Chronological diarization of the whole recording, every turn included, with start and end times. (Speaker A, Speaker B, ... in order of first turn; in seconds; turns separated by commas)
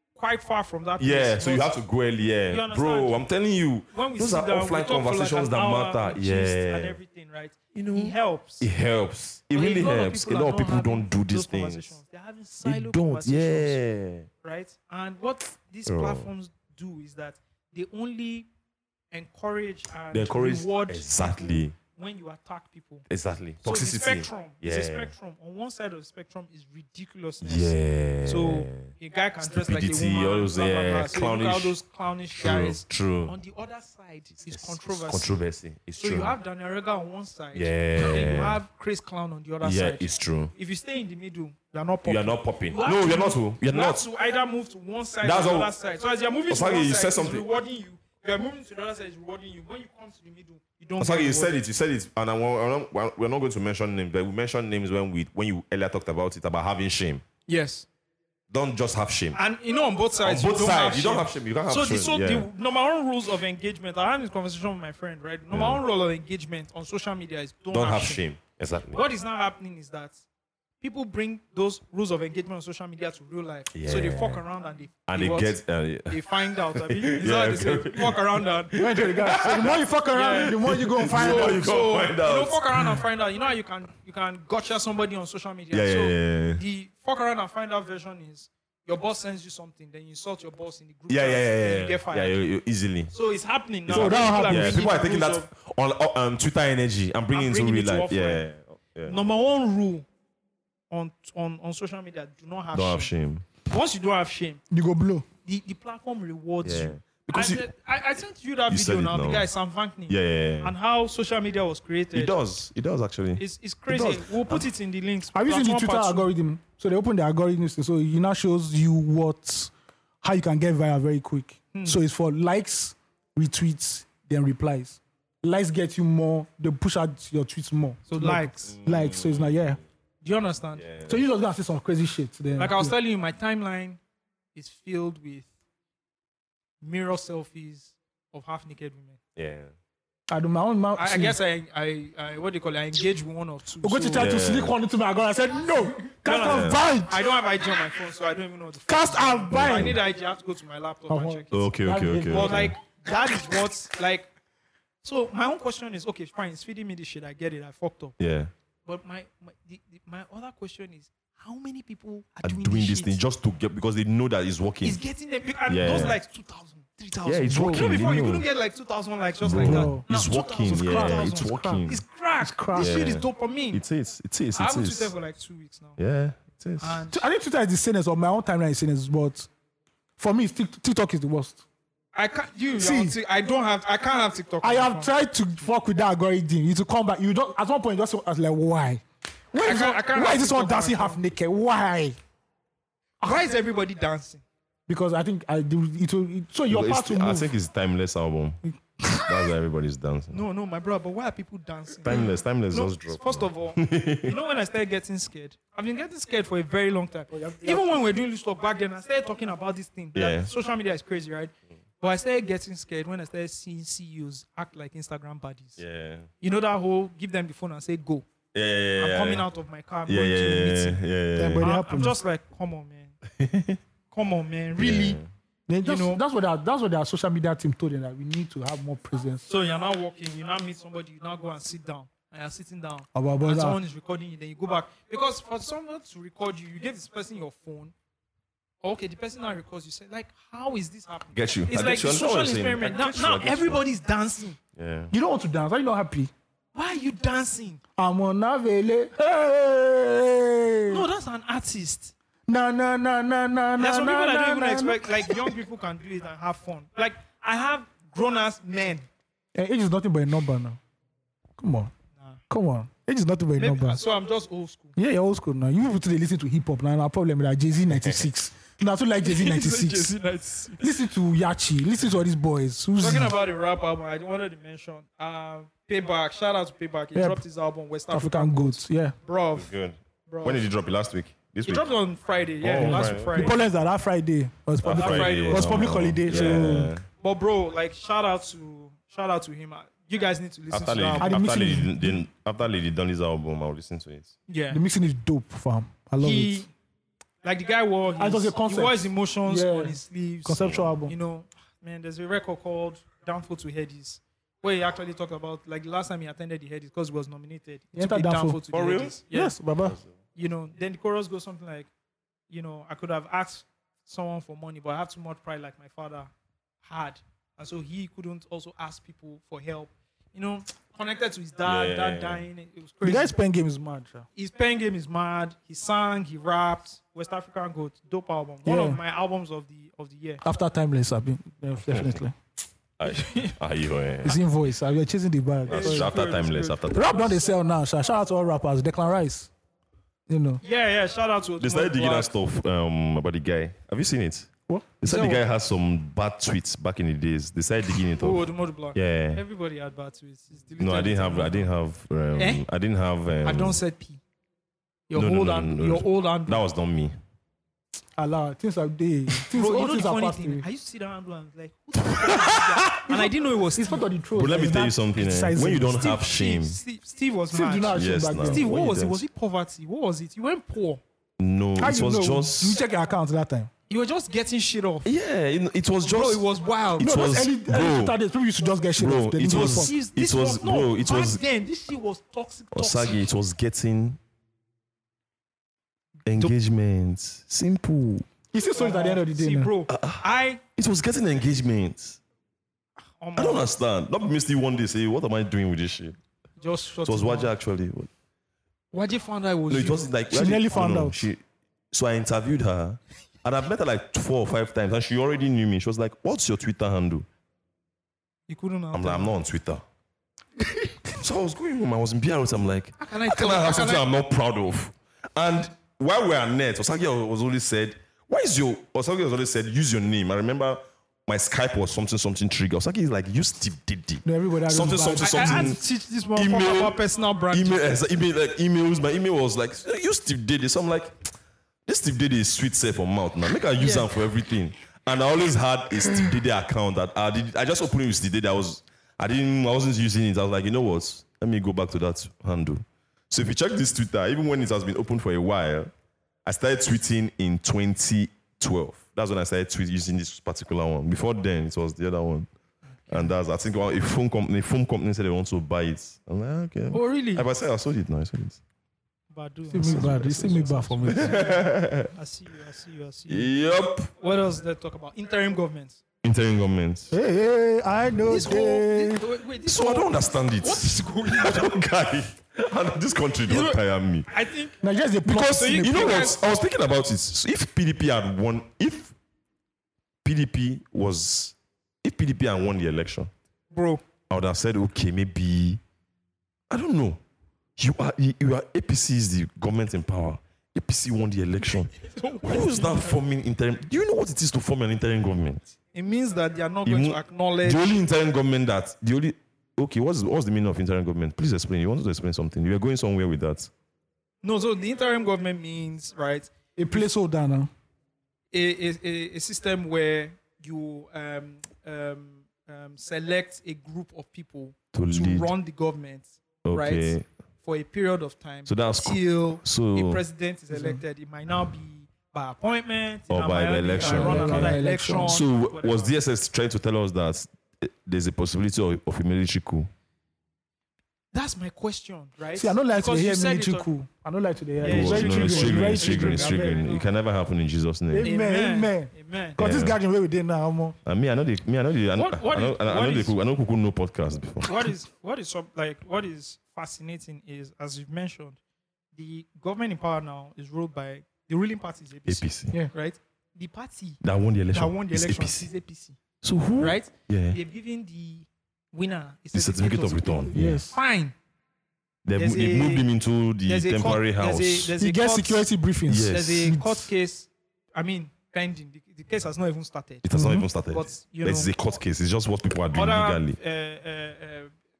Speaker A: 0.1-1.7, Speaker B: 1.0-7.0, Speaker A: 2.5-3.2, Speaker A: 3.9-8.7, Speaker B: 7.7-12.0, Speaker A: 9.5-13.8, Speaker B: 12.6-14.3, Speaker A: 14.4-18.5, Speaker B: 15.9-16.3, Speaker A: 19.1-23.1, Speaker B: 20.1-21.8, Speaker B: 23.1-25.1, Speaker A: 23.6-35.4, Speaker B: 27.4-28.9, Speaker B: 29.5-31.7, Speaker B: 32.4-33.3, Speaker B: 34.4-36.3, Speaker A: 36.0-51.5, Speaker B: 37.5-38.6, Speaker B: 39.6-40.5, Speaker B: 42.0-44.0, Speaker B: 45.2-45.7, Speaker B: 46.5-47.4, Speaker B: 51.0-57.2, Speaker A: 57.5-57.9, Speaker B: 58.5-59.4, Speaker A: 59.3-68.2, Speaker B: 60.2-62.5, Speaker B: 65.5-65.8, Speaker B: 67.7-69.0, Speaker A: 68.9-70.2, Speaker A: 70.8-75.6, Speaker B: 73.7-74.4, Speaker B: 75.1-83.0, Speaker A: 76.1-78.8, Speaker C: 78.8-81.6, Speaker A: 80.1-92.4, Speaker B: 85.7-86.6, Speaker B: 91.1-93.1, Speaker A: 93.1-95.5, Speaker B: 93.9-99.2, Speaker C: 93.9-94.8, Speaker A: 97.3-98.4, Speaker A: 99.1-100.0, Speaker A: 100.9-104.6, Speaker B: 102.7-103.5, Speaker C: 104.7-105.2, Speaker A: 105.4-112.3, Speaker B: 106.6-107.7, Speaker B: 108.7-109.5, Speaker B: 110.1-110.7, Speaker B: 112.1-114.7, Speaker A: 113.4-116.3, Speaker C: 115.3-129.8, Speaker A: 121.7-122.0, Speaker A: 128.1-128.8, Speaker B: 128.6-129.8, Speaker A: 130.2-130.8, Speaker B: 130.8-131.2, Speaker C: 131.1-132.9, Speaker A: 132.6-134.0, Speaker A: 134.5-135.5, Speaker A: 136.8-139.2, Speaker B: 139.3-139.7, Speaker C: 140.3-141.3, Speaker A: 140.9-144.3, Speaker C: 143.8-147.2, Speaker B: 144.1-144.7, Speaker A: 146.2-151.7, Speaker B: 146.3-146.8, Speaker C: 148.9-150.0, Speaker B: 149.5-150.0, Speaker C: 151.1-152.8, Speaker B: 151.5-152.8, Speaker A: 152.3-154.3, Speaker A: 155.0-158.1, Speaker B: 158.2-158.5, Speaker A: 158.8-163.2, Speaker B: 162.4-165.0, Speaker A: 164.8-173.8, Speaker B: 165.7-166.2, Speaker C: 165.9-166.1, Speaker B: 167.2-168.4, Speaker C: 167.5-168.0, Speaker B: 169.4-172.0, Speaker C: 169.4-170.1, Speaker C: 170.6-171.8, Speaker C: 172.4-173.0, Speaker B: 172.7-175.1, Speaker A: 174.5-176.0, Speaker B: 176.0-177.0, Speaker A: 176.8-177.2, Speaker C: 177.1-179.5, Speaker C: 180.2-181.6, Speaker A: 182.1-185.1, Speaker C: 182.8-183.1, Speaker C: 184.6-192.2, Speaker A: 189.6-191.2, Speaker A: 193.2-194.4, Speaker C: 194.9-197.5, Speaker B: 196.7-198.6, Speaker C: 198.6-199.3, Speaker B: 199.2-200.4, Speaker A: 200.3-215.8, Speaker B: 202.0-204.3, Speaker C: 207.3-208.0, Speaker B: 210.1-210.5, Speaker B: 215.8-216.3, Speaker A: 216.4-218.2, Speaker B: 218.5-219.4, Speaker A: 219.0-221.0, Speaker B: 220.1-221.7, Speaker C: 221.3-222.2, Speaker A: 221.6-223.1, Speaker B: 223.4-223.8, Speaker A: 224.1-225.2, Speaker B: 224.8-225.3, Speaker C: 225.7-229.4, Speaker A: 225.8-226.2, Speaker A: 229.4-237.9, Speaker C: 233.1-233.8, Speaker A: 238.8-244.6, Speaker B: 241.3-243.8, Speaker B: 244.8-245.1, Speaker C: 245.1-246.3, Speaker A: 246.7-247.8, Speaker C: 248.0-251.1, Speaker A: 250.9-252.1, Speaker C: 252.5-255.5, Speaker A: 253.8-259.1, Speaker C: 259.5-260.8, Speaker C: 261.6-261.9, Speaker A: 262.1-262.4, Speaker C: 262.5-264.0, Speaker A: 263.6-264.9, Speaker C: 264.9-270.1, Speaker A: 269.2-270.9, Speaker C: 270.8-273.3, Speaker A: 273.0-279.7, Speaker C: 277.1-277.4, Speaker C: 278.1-279.1, Speaker B: 279.5-281.9, Speaker A: 280.3-280.6, Speaker A: 281.6-283.6, Speaker B: 282.6-283.5, Speaker C: 282.8-286.9, Speaker B: 284.8-287.0, Speaker A: 284.9-291.4, Speaker B: 290.7-294.3, Speaker C: 291.2-292.2, Speaker A: 294.5-294.8, Speaker C: 294.7-296.6, Speaker A: 296.2-296.7, Speaker A: 297.4-309.6, Speaker C: 298.2-301.1, Speaker B: 300.6-300.9, Speaker C: 307.9-308.6, Speaker B: 308.7-309.2, Speaker C: 309.3-310.0, Speaker B: 309.8-310.1, Speaker A: 310.4-311.9, Speaker A: 312.5-316.3, Speaker A: 316.8-323.4, Speaker B: 321.6-322.4, Speaker C: 323.0-324.3, Speaker A: 324.3-330.4, Speaker C: 328.6-329.0, Speaker C: 330.4-332.4, Speaker B: 331.9-332.2, Speaker B: 333.0-334.4, Speaker A: 333.0-333.6, Speaker C: 334.2-336.1, Speaker B: 335.7-337.3, Speaker A: 335.7-337.5, Speaker C: 336.9-339.5, Speaker C: 340.3-340.6, Speaker A: 340.6-342.3, Speaker B: 341.6-349.4, Speaker A: 345.0-345.4, Speaker A: 348.2-351.7, Speaker B: 350.8-353.8, Speaker A: 352.4-352.6, Speaker A: 353.4-354.2, Speaker A: 355.1-356.6, Speaker B: 355.1-357.1, Speaker C: 358.1-360.6, Speaker A: 359.5-364.1, Speaker B: 362.1-363.1, Speaker C: 363.8-366.1, Speaker B: 364.3-366.8, Speaker A: 366.0-371.0, Speaker C: 367.5-368.7, Speaker B: 367.9-369.2, Speaker B: 371.4-372.8, Speaker C: 371.8-373.7, Speaker A: 373.9-375.1, Speaker B: 375.0-376.4, Speaker A: 376.0-377.2, Speaker B: 377.0-378.2, Speaker C: 377.0-379.9, Speaker B: 378.9-381.4, Speaker A: 379.4-383.3, Speaker B: 382.7-384.2, Speaker B: 386.2-388.3, Speaker C: 388.5-389.7, Speaker A: 388.8-390.6, Speaker B: 389.9-390.2, Speaker B: 390.8-392.2, Speaker A: 393.2-393.7, Speaker B: 393.4-396.2, Speaker A: 396.6-397.5, Speaker B: 397.1-398.1, Speaker A: 398.9-400.0, Speaker B: 399.7-407.2, Speaker C: 400.3-401.2, Speaker A: 408.5-409.4, Speaker B: 408.9-409.8, Speaker B: 411.2-425.8, Speaker A: 413.0-414.1, Speaker C: 424.2-425.8, Speaker A: 425.2-428.0, Speaker B: 426.3-427.0, Speaker B: 427.5-431.1, Speaker B: 431.9-445.9, Speaker A: 433.8-434.1, Speaker B: 446.4-452.5, Speaker A: 453.1-453.3, Speaker B: 453.1-458.6, Speaker A: 456.9-457.4, Speaker A: 459.3-463.5, Speaker C: 459.7-461.4, Speaker B: 459.8-462.1, Speaker B: 463.3-464.1, Speaker A: 464.2-466.0, Speaker B: 466.2-467.1, Speaker C: 467.1-469.2, Speaker A: 468.3-471.7, Speaker B: 469.6-474.3, Speaker A: 473.5-476.4, Speaker C: 474.8-476.3, Speaker B: 475.8-479.1, Speaker B: 480.2-483.3, Speaker A: 483.7-484.0, Speaker B: 484.3-485.8, Speaker B: 486.7-487.2, Speaker B: 487.8-495.7, Speaker A: 491.9-493.2, Speaker A: 495.9-498.0, Speaker B: 496.9-503.7, Speaker A: 504.4-507.1, Speaker C: 506.8-507.7, Speaker A: 508.5-526.1, Speaker B: 514.9-515.5, Speaker B: 516.6-517.2, Speaker B: 518.6-520.2, Speaker C: 520.7-521.0, Speaker B: 523.3-529.9, Speaker C: 524.0-525.4, Speaker A: 531.3-533.9, Speaker C: 532.5-536.8, Speaker A: 534.8-537.1, Speaker B: 534.8-538.3, Speaker C: 538.1-541.0, Speaker A: 538.2-539.6, Speaker B: 539.6-540.0, Speaker B: 541.0-544.7, Speaker A: 542.1-543.4, Speaker A: 544.6-548.6, Speaker A: 549.1-556.2, Speaker B: 552.3-552.8, Speaker B: 554.2-555.7, Speaker B: 556.4-557.6, Speaker A: 556.8-561.3, Speaker B: 559.5-560.8, Speaker C: 560.5-560.9, Speaker B: 562.2-564.9, Speaker A: 562.4-563.1, Speaker A: 563.6-565.7, Speaker C: 565.0-567.1, Speaker B: 566.1-566.8, Speaker A: 566.2-570.2, Speaker B: 570.2-573.6, Speaker C: 570.3-570.7, Speaker A: 570.9-571.7, Speaker A: 572.9-574.7